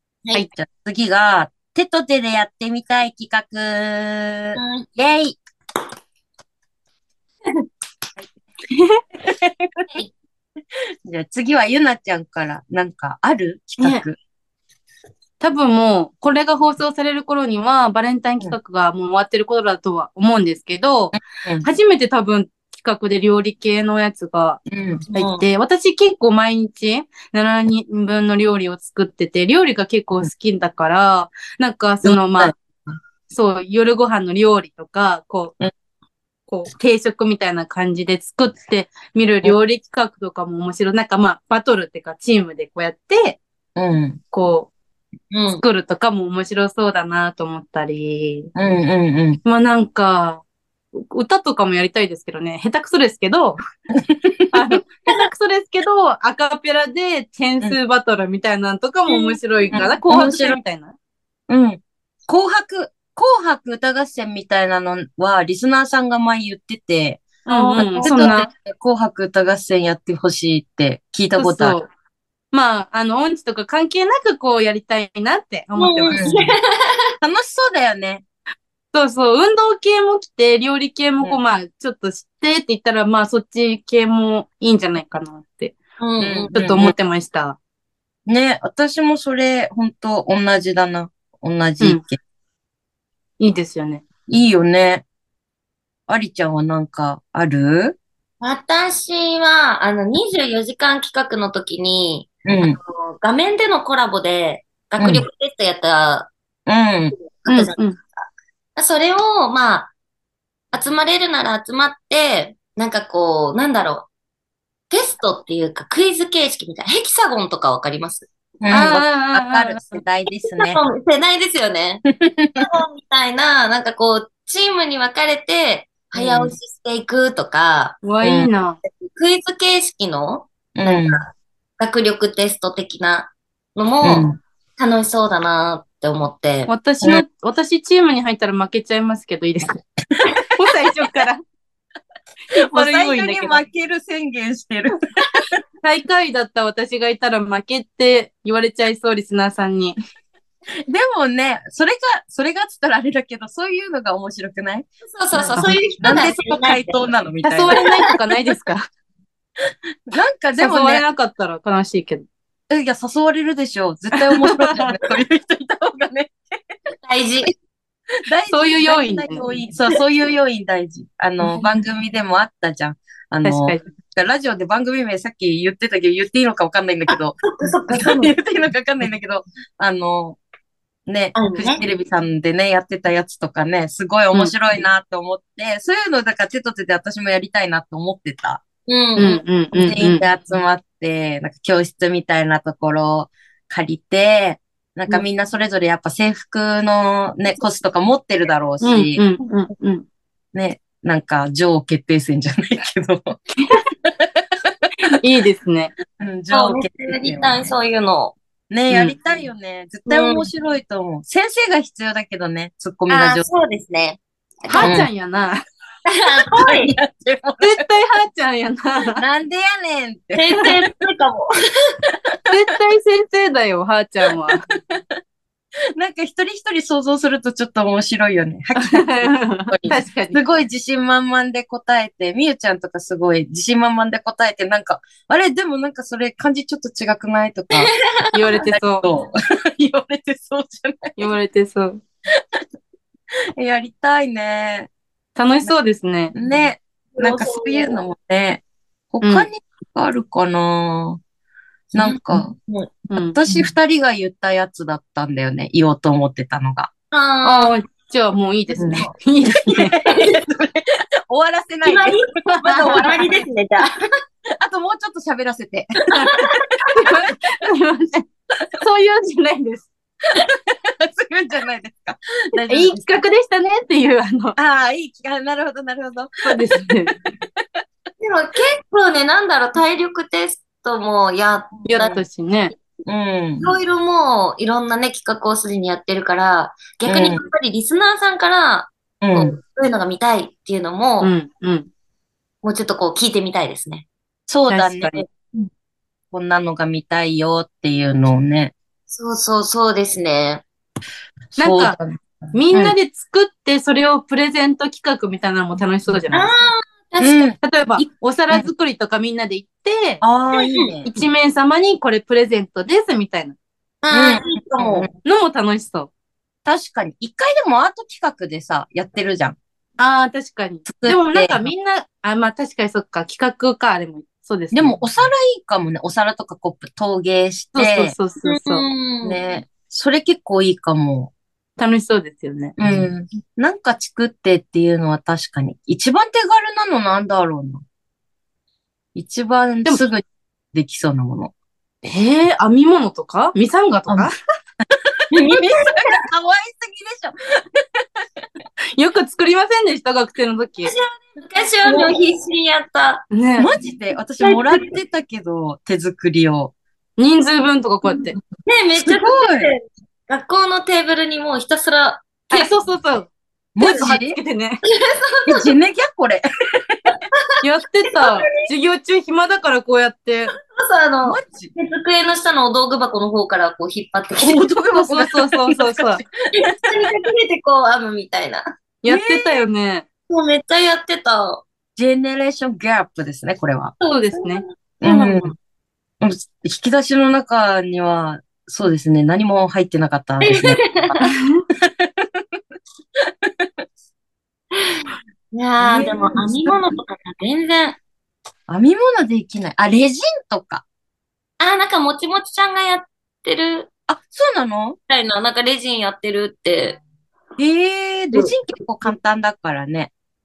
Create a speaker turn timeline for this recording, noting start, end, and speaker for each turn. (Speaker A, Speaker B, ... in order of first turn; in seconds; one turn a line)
Speaker A: 0.5-5.4
Speaker B: 4.6-4.8
Speaker C: 8.7-9.0
Speaker A: 9.2-9.9
Speaker A: 11.1-14.2
Speaker C: 13.8-14.0
Speaker C: 15.4-24.6
Speaker A: 24.7-25.0
Speaker B: 25.1-25.4
Speaker C: 25.1-32.5
Speaker A: 32.0-33.0
Speaker C: 33.3-35.5
Speaker C: 36.5-43.4
Speaker A: 43.8-44.2
Speaker C: 44.3-44.7
Speaker B: 45.3-45.6
Speaker C: 45.5-48.5
Speaker A: 48.5-49.4
Speaker C: 49.4-50.4
Speaker C: 50.9-53.6
Speaker A: 54.1-54.5
Speaker C: 54.5-60.9
Speaker B: 59.1-59.9
Speaker A: 59.7-60.6
Speaker A: 61.5-71.8
Speaker C: 67.5-68.5
Speaker B: 67.5-68.4
Speaker C: 71.4-71.9
Speaker C: 72.5-76.4
Speaker B: 75.8-76.9
Speaker A: 76.1-76.5
Speaker A: 77.2-78.2
Speaker C: 78.9-85.8
Speaker B: 86.0-86.5
Speaker A: 86.2-86.9
Speaker C: 86.5-87.6
Speaker A: 88.3-92.2
Speaker C: 93.4-94.0
Speaker A: 94.3-95.0
Speaker A: 96.1-98.0
Speaker B: 98.4-106.3
Speaker A: 102.4-102.7
Speaker A: 105.0-105.2
Speaker A: 106.7-107.1
Speaker B: 107.2-109.9
Speaker C: 107.5-108.0
Speaker B: 110.7-114.1
Speaker B: 114.9-118.3
Speaker A: 118.6-120.8
Speaker C: 118.7-120.0
Speaker B: 120.6-122.0
Speaker A: 122.1-122.6
Speaker B: 122.6-128.0
Speaker A: 126.1-126.5
Speaker C: 128.0-128.8
Speaker A: 128.2-128.5
Speaker B: 129.0-131.3
Speaker A: 130.7-131.2
Speaker B: 131.8-136.7
Speaker A: 134.0-134.4
Speaker C: 136.7-139.8
Speaker C: 140.6-141.4
Speaker C: 142.5-143.6
Speaker A: 142.6-145.4
Speaker C: 145.8-150.0
Speaker A: 150.9-157.8
Speaker B: 155.1-157.1
Speaker C: 157.4-158.8
Speaker A: 160.1-161.0
Speaker C: 160.6-162.2
Speaker A: 162.7-166.3
Speaker C: 164.3-164.9
Speaker B: 167.0-167.5
Speaker A: 168.2-180.4
Speaker C: 168.5-169.4
Speaker C: 173.4-173.8
Speaker B: 177.4-178.3
Speaker A: 181.1-188.6
Speaker B: 181.3-181.8
Speaker B: 188.9-189.4
Speaker C: 189.2-190.2
Speaker A: 189.7-199.2
Speaker C: 198.8-200.0
Speaker A: 200.5-203.4
Speaker A: 204.0-204.7
Speaker C: 205.0-206.0
Speaker A: 206.2-207.7
Speaker B: 206.5-208.3
Speaker A: 208.7-213.5
Speaker C: 208.9-209.2
Speaker B: 210.1-210.5
Speaker B: 213.1-214.9
Speaker C: 214.7-215.6
Speaker A: 214.8-215.1
Speaker B: 216.1-216.9
Speaker A: 216.5-217.7
Speaker C: 217.6-219.2
Speaker A: 219.2-220.7
Speaker B: 220.4-221.5
Speaker C: 222.5-224.7
Speaker A: 224.8-225.0
Speaker A: 226.0-241.3
Speaker C: 228.8-230.4
Speaker C: 238.3-239.1
Speaker C: 241.2-242.0
Speaker A: 243.6-244.9
Speaker C: 245.3-246.3
Speaker A: 246.3-251.2
Speaker B: 247.2-248.0
Speaker C: 249.2-249.5
Speaker B: 251.9-252.9
Speaker A: 251.9-252.5
Speaker C: 253.1-253.4
Speaker A: 253.2-256.9
Speaker B: 257.1-257.7
Speaker C: 257.4-259.9
Speaker A: 258.8-263.3
Speaker B: 261.8-262.3
Speaker C: 262.5-263.1
Speaker B: 262.8-264.0
Speaker A: 264.6-266.5
Speaker C: 266.9-268.3
Speaker C: 268.8-269.9
Speaker A: 270.3-273.2
Speaker C: 272.7-274.5
Speaker A: 274.6-276.3
Speaker C: 276.4-277.2
Speaker B: 278.2-282.2
Speaker C: 281.9-282.7
Speaker A: 283.1-283.7
Speaker B: 283.6-291.3
Speaker A: 287.1-287.4
Speaker A: 289.2-289.5
Speaker C: 291.2-291.9
Speaker B: 292.6-294.1
Speaker A: 294.5-295.3
Speaker C: 294.7-295.2
Speaker A: 296.3-298.7
Speaker B: 299.1-300.6
Speaker A: 301.5-302.9
Speaker C: 301.6-302.0
Speaker C: 302.5-306.7
Speaker B: 306.3-307.5
Speaker A: 307.2-308.6
Speaker C: 307.6-310.2
Speaker A: 310.2-311.1
Speaker B: 310.6-310.9
Speaker C: 311.0-313.6
Speaker B: 314.0-315.1
Speaker A: 314.1-315.1
Speaker C: 315.2-316.1
Speaker A: 316.6-319.6
Speaker C: 320.0-325.0
Speaker A: 320.9-321.6
Speaker A: 324.7-328.2
Speaker C: 327.7-328.9
Speaker B: 328.4-329.4
Speaker A: 329.2-331.3
Speaker C: 331.8-332.7
Speaker A: 332.8-337.8
Speaker A: 339.1-341.5
Speaker C: 342.0-344.3
Speaker A: 345.0-347.3
Speaker B: 345.3-346.1
Speaker C: 348.9-350.9
Speaker B: 350.8-353.2
Speaker A: 351.8-352.1
Speaker C: 353.3-353.7
Speaker A: 353.6-356.7
Speaker B: 354.4-354.9
Speaker C: 357.2-358.4
Speaker B: 358.6-362.7
Speaker A: 359.0-359.7
Speaker C: 362.5-364.8
Speaker A: 363.8-364.4
Speaker B: 364.9-365.6
Speaker A: 365.5-366.4
Speaker C: 367.6-370.5
Speaker B: 368.2-368.6
Speaker B: 370.8-374.6
Speaker A: 371.2-371.7
Speaker A: 374.4-377.1
Speaker C: 374.9-376.2
Speaker B: 376.6-378.6
Speaker C: 379.0-380.0
Speaker A: 379.1-379.6
Speaker B: 380.3-381.6
Speaker A: 381.9-383.9
Speaker B: 384.0-385.5
Speaker C: 384.1-384.6
Speaker A: 385.0-385.5
Speaker A: 386.2-391.1
Speaker B: 390.4-391.2
Speaker C: 391.2-391.6
Speaker A: 391.8-392.4
Speaker A: 393.4-393.8
Speaker B: 394.8-398.0
Speaker A: 395.8-396.9
Speaker A: 398.7-400.8
Speaker B: 401.6-403.9
Speaker A: 404.1-405.0
Speaker B: 405.1-407.0
Speaker A: 407.6-410.1